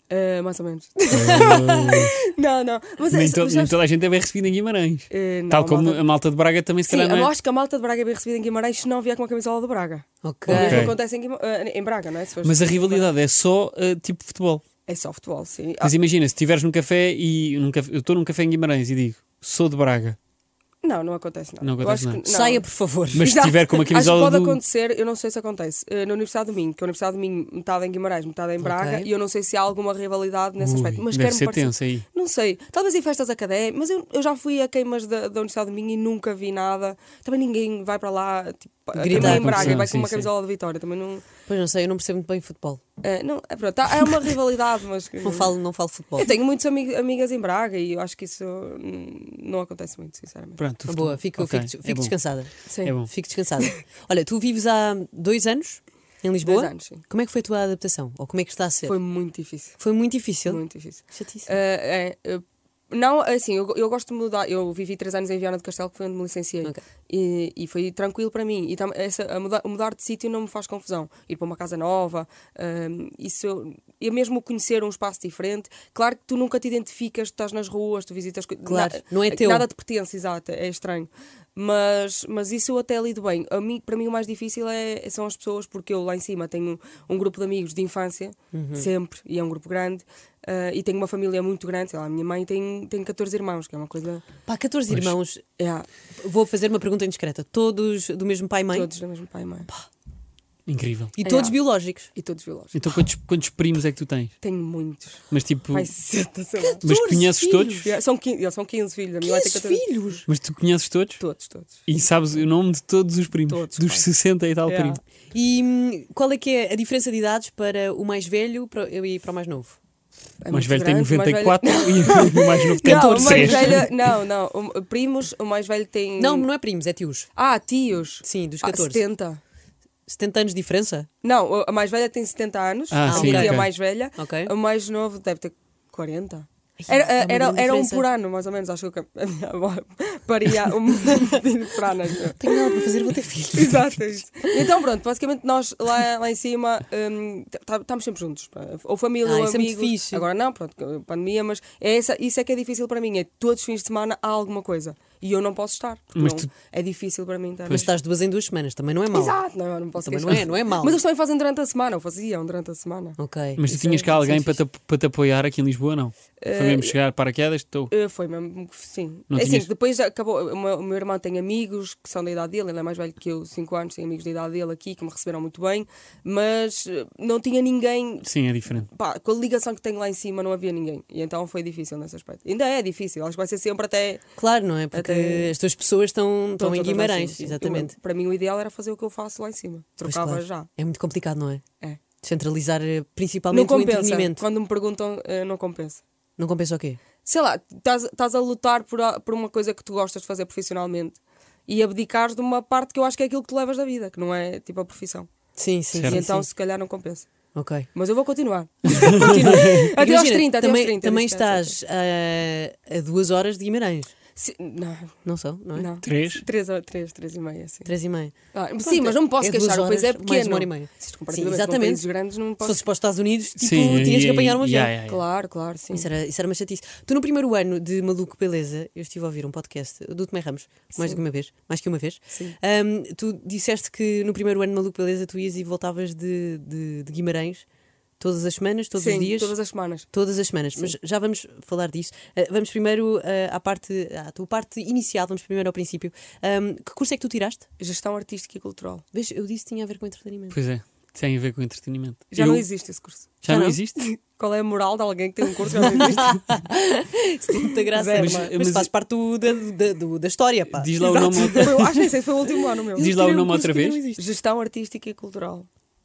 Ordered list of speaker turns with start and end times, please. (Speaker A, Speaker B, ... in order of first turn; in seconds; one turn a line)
Speaker A: 0.1-3.8
Speaker B: 1.1-2.2
Speaker B: 3.1-7.3
Speaker A: 5.1-6.0
Speaker A: 6.9-13.1
Speaker C: 10.2-10.9
Speaker B: 10.5-11.0
Speaker B: 12.4-14.6
Speaker A: 14.9-15.9
Speaker B: 15.8-20.2
Speaker A: 20.8-22.7
Speaker B: 21.6-22.2
Speaker C: 22.3-23.3
Speaker B: 23.1-24.6
Speaker A: 23.2-41.3
Speaker C: 28.6-29.1
Speaker B: 30.6-32.0
Speaker C: 39.0-39.8
Speaker B: 39.1-40.3
Speaker C: 41.5-42.8
Speaker A: 43.0-45.5
Speaker C: 45.2-46.3
Speaker A: 46.2-50.6
Speaker B: 50.6-52.2
Speaker C: 50.9-59.0
Speaker A: 52.7-53.0
Speaker B: 52.8-53.1
Speaker A: 56.4-57.0
Speaker A: 58.9-59.8
Speaker C: 59.8-61.5
Speaker A: 60.5-94.2
Speaker C: 78.7-79.7
Speaker C: 88.5-88.9
Speaker C: 94.5-95.4
Speaker B: 94.9-95.2
Speaker A: 95.6-95.9
Speaker C: 96.2-98.9
Speaker A: 98.7-99.7
Speaker B: 100.7-101.2
Speaker C: 101.2-102.1
Speaker A: 101.2-101.6
Speaker A: 102.1-102.8
Speaker B: 102.7-104.3
Speaker A: 104.4-106.8
Speaker B: 105.3-105.9
Speaker C: 106.6-107.9
Speaker B: 106.8-107.9
Speaker A: 107.8-109.9
Speaker C: 109.2-110.2
Speaker B: 110.3-111.2
Speaker A: 111.2-111.8
Speaker B: 111.9-115.0
Speaker A: 113.5-114.1
Speaker A: 114.6-115.0
Speaker C: 115.3-119.8
Speaker A: 120.4-126.5
Speaker B: 120.5-124.0
Speaker C: 122.8-123.9
Speaker C: 126.2-127.3
Speaker A: 127.3-129.4
Speaker C: 128.2-129.0
Speaker C: 130.1-131.1
Speaker A: 131.2-142.9
Speaker B: 132.9-133.7
Speaker C: 133.1-134.5
Speaker C: 136.8-138.1
Speaker C: 142.4-144.6
Speaker A: 143.5-157.9
Speaker C: 149.2-150.2
Speaker B: 156.2-156.5
Speaker C: 157.7-159.4
Speaker A: 159.1-164.4
Speaker C: 160.0-161.0
Speaker C: 163.2-164.6
Speaker B: 163.6-167.9
Speaker A: 166.4-166.9
Speaker A: 167.9-184.3
Speaker B: 169.3-169.7
Speaker B: 178.2-178.9
Speaker C: 184.4-187.9
Speaker A: 184.9-185.5
Speaker A: 186.6-190.7
Speaker C: 190.0-191.6
Speaker C: 192.2-194.4
Speaker A: 193.5-196.0
Speaker C: 196.4-197.0
Speaker A: 197.2-205.3
Speaker C: 205.6-206.5
Speaker B: 205.9-206.2
Speaker A: 206.0-207.3
Speaker C: 207.6-207.9
Speaker A: 207.9-211.8
Speaker C: 208.9-214.1
Speaker B: 209.0-209.8
Speaker A: 214.4-215.2
Speaker C: 215.2-215.9
Speaker A: 215.8-217.9
Speaker B: 216.0-216.4
Speaker C: 217.8-222.1
Speaker A: 218.5-222.8
Speaker C: 222.6-224.9
Speaker B: 223.6-225.2
Speaker A: 225.1-226.1
Speaker C: 225.9-237.7
Speaker C: 238.2-239.6
Speaker A: 239.0-240.1
Speaker C: 240.1-247.7
Speaker A: 247.8-249.1
Speaker C: 249.1-250.6
Speaker B: 250.5-252.7
Speaker A: 252.3-253.4
Speaker B: 253.4-254.0
Speaker C: 253.5-253.8
Speaker A: 254.0-256.5
Speaker C: 256.0-261.7
Speaker A: 257.9-258.5
Speaker B: 258.2-258.9
Speaker B: 260.7-262.0
Speaker A: 261.0-263.1
Speaker C: 263.0-264.2
Speaker B: 263.0-264.0
Speaker A: 264.2-265.7